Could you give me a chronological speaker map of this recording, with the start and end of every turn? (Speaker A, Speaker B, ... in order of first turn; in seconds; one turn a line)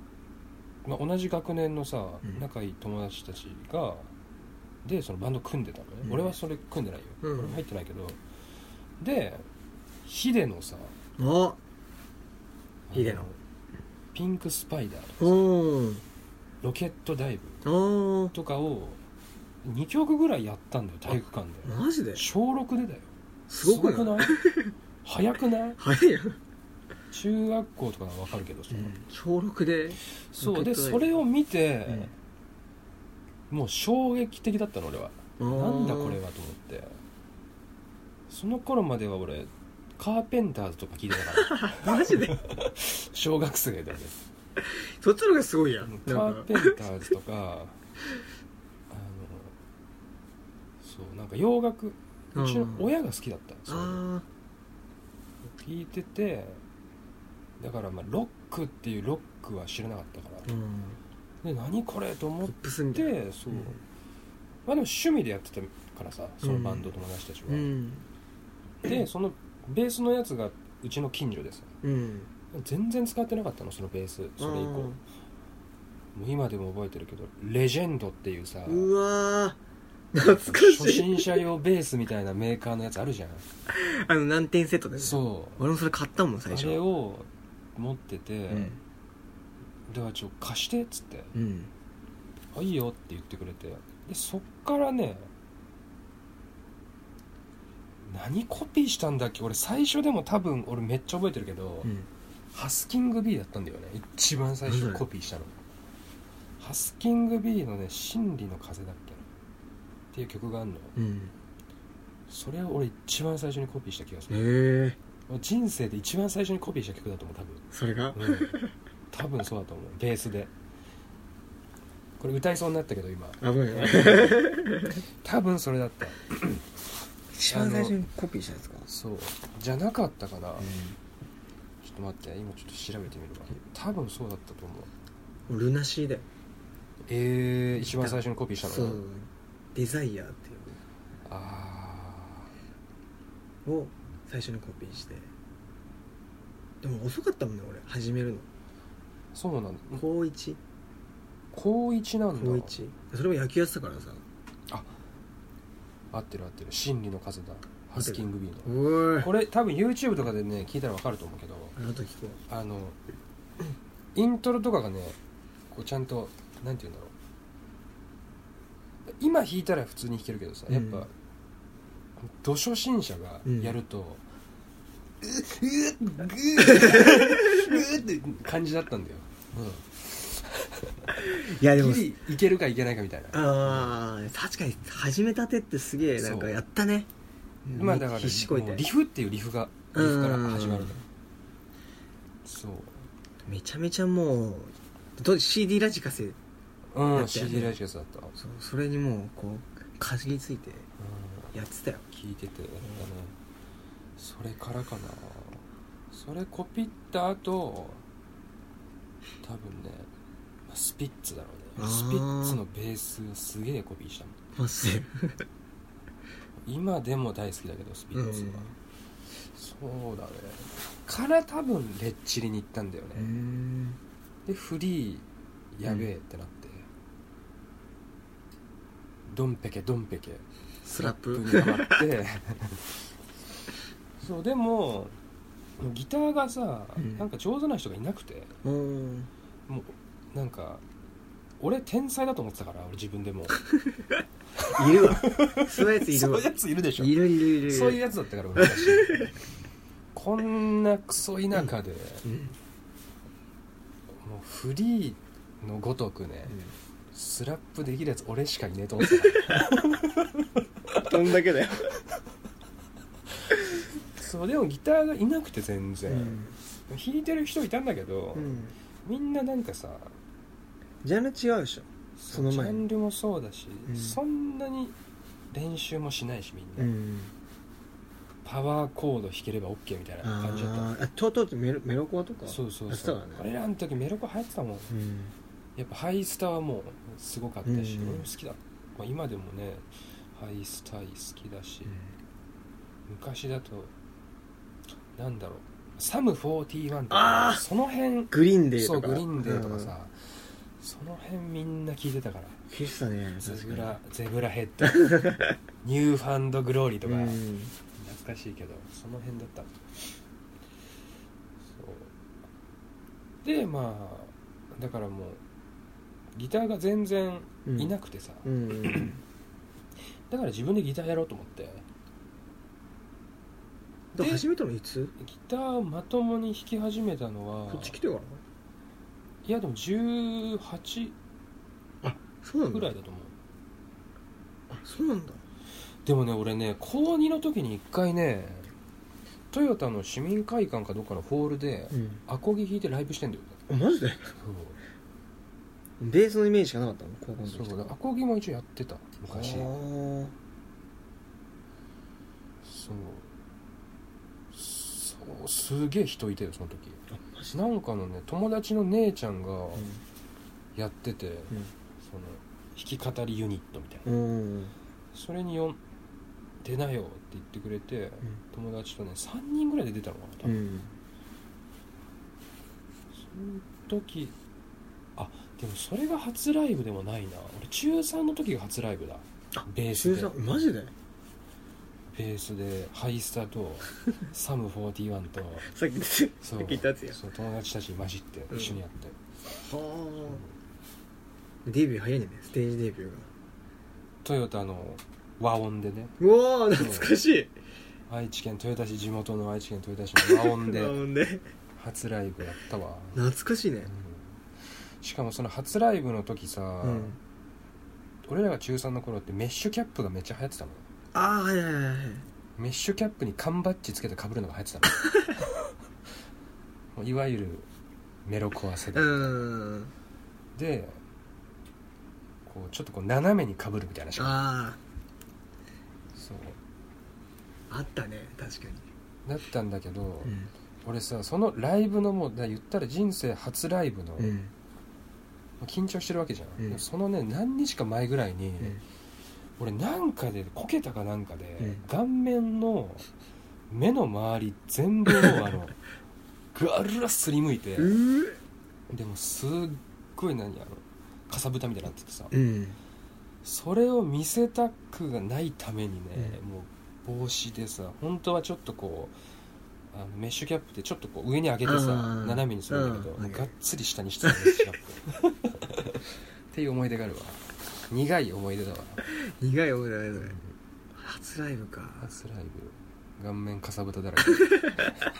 Speaker A: 0.8-4.1
Speaker A: 4.8-8.2
Speaker B: 6.0-6.3
Speaker B: 7.2-7.6
Speaker A: 9.0-9.4
Speaker A: 10.0-10.9
Speaker B: 11.2-11.6
Speaker A: 12.9-13.4
Speaker B: 12.9-13.3
Speaker A: 14.1-15.5
Speaker B: 15.2-16.0
Speaker A: 16.6-17.6
Speaker B: 17.6-18.3
Speaker A: 18.3-19.0
Speaker A: 19.6-23.1
Speaker B: 21.6-22.2
Speaker B: 23.5-24.7
Speaker A: 23.6-24.4
Speaker A: 25.0-25.8
Speaker B: 25.8-26.4
Speaker A: 27.1-28.9
Speaker B: 28.7-31.1
Speaker A: 30.3-32.1
Speaker A: 33.5-37.0
Speaker B: 35.4-36.2
Speaker A: 38.3-44.2
Speaker B: 41.4-42.4
Speaker B: 44.6-46.8
Speaker A: 45.8-47.8
Speaker A: 48.9-49.5
Speaker A: 50.8-54.0
Speaker B: 52.3-52.9
Speaker B: 53.7-54.2
Speaker A: 55.5-56.6
Speaker A: 57.6-60.5
Speaker B: 60.5-61.0
Speaker A: 61.4-63.8
Speaker B: 62.4-63.8
Speaker A: 64.7-67.7
Speaker B: 66.4-66.9
Speaker B: 67.5-68.0
Speaker A: 68.8-71.7
Speaker B: 71.8-72.3
Speaker A: 72.5-75.0
Speaker B: 74.4-75.0
Speaker A: 76.1-78.9
Speaker B: 78.7-79.6
Speaker B: 80.1-81.4
Speaker A: 80.2-83.5
Speaker B: 83.7-86.8
Speaker A: 85.0-85.6
Speaker A: 86.5-88.8
Speaker B: 88.5-88.8
Speaker A: 89.9-91.3
Speaker B: 91.3-91.7
Speaker A: 92.5-95.3
Speaker A: 98.0-101.9
Speaker A: 102.5-105.5
Speaker B: 104.6-105.0
Speaker A: 106.6-109.2
Speaker A: 110.1-110.9
Speaker B: 111.0-111.3
Speaker A: 112.3-114.4
Speaker B: 114.3-115.0
Speaker A: 115.3-118.5
Speaker B: 117.7-118.7
Speaker A: 119.1-120.5
Speaker A: 122.2-124.6
Speaker B: 123.4-125.0
Speaker A: 125.2-126.6
Speaker B: 127.3-128.9
Speaker A: 127.5-128.0
Speaker A: 128.8-130.8
Speaker B: 130.6-131.0
Speaker A: 131.8-134.9
Speaker B: 135.5-136.2
Speaker A: 137.1-139.0
Speaker B: 137.8-140.8
Speaker A: 141.2-142.5
Speaker B: 143.6-145.3
Speaker B: 146.8-148.5
Speaker A: 149.3-150.0
Speaker B: 149.9-150.6
Speaker A: 151.5-152.7
Speaker B: 152.3-154.2
Speaker A: 156.1-161.7
Speaker B: 157.9-159.3
Speaker B: 161.8-162.4
Speaker A: 162.5-163.0
Speaker A: 164.1-165.2
Speaker A: 165.7-167.1
Speaker A: 169.1-171.1
Speaker B: 170.7-171.0
Speaker A: 172.2-174.2
Speaker B: 173.4-173.7
Speaker A: 175.2-184.0
Speaker B: 176.6-177.7
Speaker B: 181.3-182.1
Speaker B: 183.3-187.1
Speaker A: 186.1-186.6
Speaker B: 187.6-188.8
Speaker A: 187.7-191.0
Speaker B: 189.9-191.0
Speaker A: 192.4-193.1
Speaker B: 193.4-196.4
Speaker A: 196.9-198.3
Speaker B: 197.1-197.8
Speaker B: 198.3-200.9
Speaker A: 201.0-201.5
Speaker B: 201.5-202.0
Speaker A: 202.1-203.3
Speaker A: 204.2-208.0
Speaker A: 209.4-210.1
Speaker A: 210.7-214.4
Speaker B: 211.8-212.6
Speaker B: 214.5-215.4
Speaker A: 216.7-218.7
Speaker B: 218.1-218.7
Speaker A: 219.4-223.3
Speaker B: 223.1-224.0
Speaker A: 224.4-226.9
Speaker A: 229.3-230.4
Speaker B: 230.8-232.1
Speaker A: 230.9-232.9
Speaker A: 234.2-235.2
Speaker A: 235.8-238.5
Speaker B: 236.9-237.2
Speaker B: 238.6-239.3
Speaker A: 239.7-240.8
Speaker A: 241.6-243.6
Speaker B: 243.7-244.1
Speaker A: 244.6-249.3
Speaker B: 244.7-248.0
Speaker B: 248.5-249.3
Speaker A: 250.1-252.2
Speaker B: 252.2-252.6
Speaker A: 254.2-256.6
Speaker B: 256.5-256.7
Speaker A: 257.1-261.1
Speaker B: 260.9-261.9
Speaker A: 264.2-270.1
Speaker B: 266.1-266.5
Speaker B: 268.3-268.7
Speaker B: 271.0-272.8
Speaker A: 272.2-274.9
Speaker B: 273.9-274.2
Speaker A: 275.5-276.9
Speaker B: 276.8-277.3
Speaker A: 278.4-280.9
Speaker B: 280.2-283.4
Speaker A: 282.5-284.9
Speaker B: 284.9-285.3
Speaker A: 285.8-292.0
Speaker B: 287.6-288.3
Speaker A: 293.1-293.9
Speaker A: 295.1-302.6
Speaker B: 297.1-297.6
Speaker B: 298.3-299.9
Speaker B: 302.7-303.9
Speaker A: 303.4-305.2
Speaker B: 304.8-305.5
Speaker A: 305.8-307.4
Speaker B: 307.0-307.7
Speaker A: 308.0-309.8
Speaker A: 311.7-312.1
Speaker A: 313.4-315.4
Speaker A: 316.3-318.5
Speaker B: 317.6-319.2
Speaker A: 320.3-321.8
Speaker B: 324.1-325.1
Speaker A: 324.1-324.4
Speaker A: 325.2-328.0
Speaker B: 327.7-328.4
Speaker A: 329.4-331.1
Speaker B: 332.0-332.9
Speaker A: 332.7-333.3
Speaker B: 334.7-335.4
Speaker A: 336.0-338.7
Speaker A: 339.5-343.6
Speaker B: 341.9-342.2
Speaker B: 343.7-344.3
Speaker A: 344.4-344.8
Speaker B: 346.0-347.9
Speaker A: 347.5-349.7
Speaker B: 349.3-350.3
Speaker A: 352.6-353.3
Speaker A: 354.5-359.9
Speaker B: 357.1-357.5
Speaker B: 359.8-360.0
Speaker A: 360.7-364.1
Speaker B: 364.1-364.7
Speaker A: 365.1-365.8
Speaker A: 366.6-370.6
Speaker B: 370.4-370.9
Speaker A: 373.1-374.3
Speaker A: 375.2-380.4
Speaker B: 379.5-380.9
Speaker A: 382.1-385.7
Speaker B: 385.6-387.2
Speaker A: 386.4-389.1
Speaker B: 388.5-388.8
Speaker B: 389.6-390.4
Speaker B: 391.6-393.3
Speaker A: 394.2-396.1
Speaker B: 396.2-397.5
Speaker A: 396.7-397.2
Speaker A: 398.1-401.0
Speaker B: 400.2-401.4
Speaker A: 401.8-403.2
Speaker B: 403.1-403.9
Speaker A: 403.9-404.2
Speaker A: 405.0-407.1
Speaker B: 406.8-407.2
Speaker A: 408.2-410.8
Speaker B: 411.1-412.2
Speaker A: 412.6-415.4
Speaker A: 416.9-417.7
Speaker A: 418.2-419.4
Speaker B: 418.9-419.9
Speaker A: 420.6-421.0
Speaker A: 422.4-424.4
Speaker B: 424.2-424.8
Speaker A: 426.1-426.6
Speaker B: 427.7-428.8
Speaker A: 429.2-434.4
Speaker B: 430.2-430.5
Speaker B: 434.2-434.5
Speaker A: 435.6-438.8
Speaker A: 439.6-443.1
Speaker A: 443.7-445.8
Speaker A: 446.5-448.0
Speaker B: 447.8-448.4
Speaker A: 448.9-452.3
Speaker B: 452.3-452.8
Speaker A: 453.4-459.1
Speaker A: 459.9-466.0
Speaker B: 461.6-463.5
Speaker B: 464.2-464.6
Speaker A: 466.5-469.0
Speaker B: 469.1-470.4
Speaker A: 470.2-470.5
Speaker B: 470.9-472.1
Speaker A: 472.0-475.1
Speaker B: 474.3-474.9